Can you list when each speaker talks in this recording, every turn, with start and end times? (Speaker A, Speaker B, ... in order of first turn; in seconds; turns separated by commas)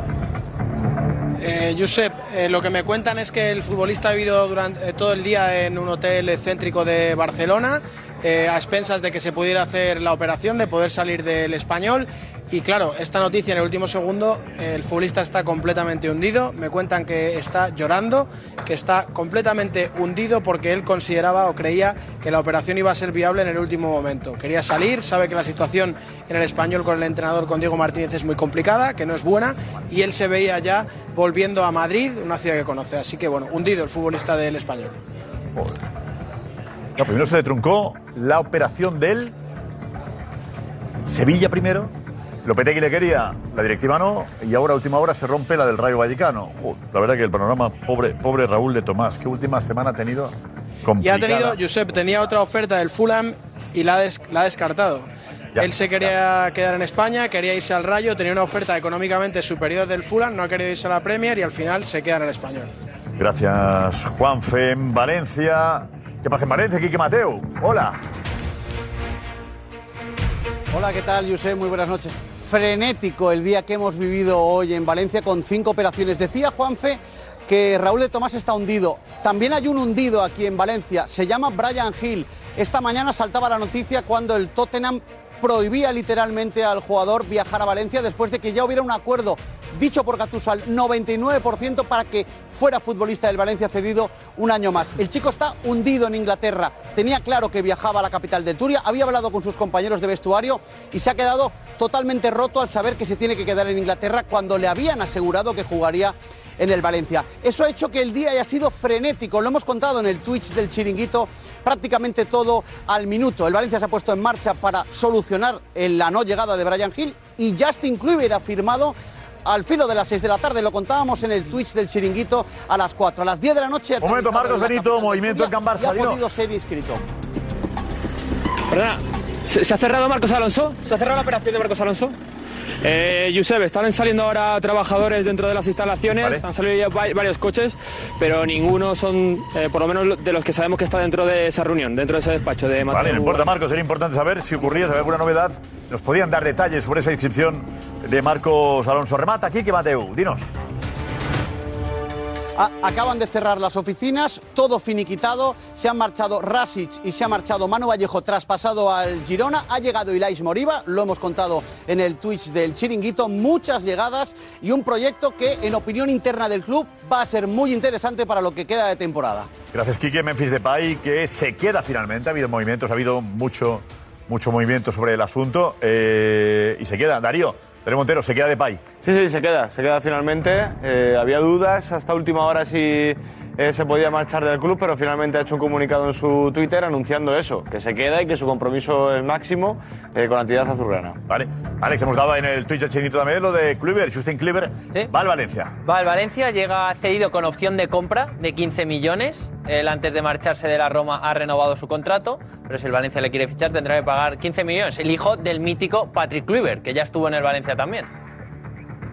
Speaker A: 1.4-35.0, Speaker B: 37.0-39.3, Speaker B: 41.1-41.9, Speaker B: 42.5-51.6, Speaker A: 51.0-62.7, Speaker B: 55.5-56.1, Speaker B: 63.2-68.0, Speaker C: 70.7-127.0, Speaker B: 124.0-126.4, Speaker D: 128.7-132.2, Speaker D: 132.8-143.5, Speaker B: 136.2-136.4, Speaker B: 142.9-150.5, Speaker C: 152.6-169.5, Speaker B: 169.7-178.8, Speaker E: 179.0-191.2, Speaker B: 191.3-195.7, Speaker F: 195.8-208.1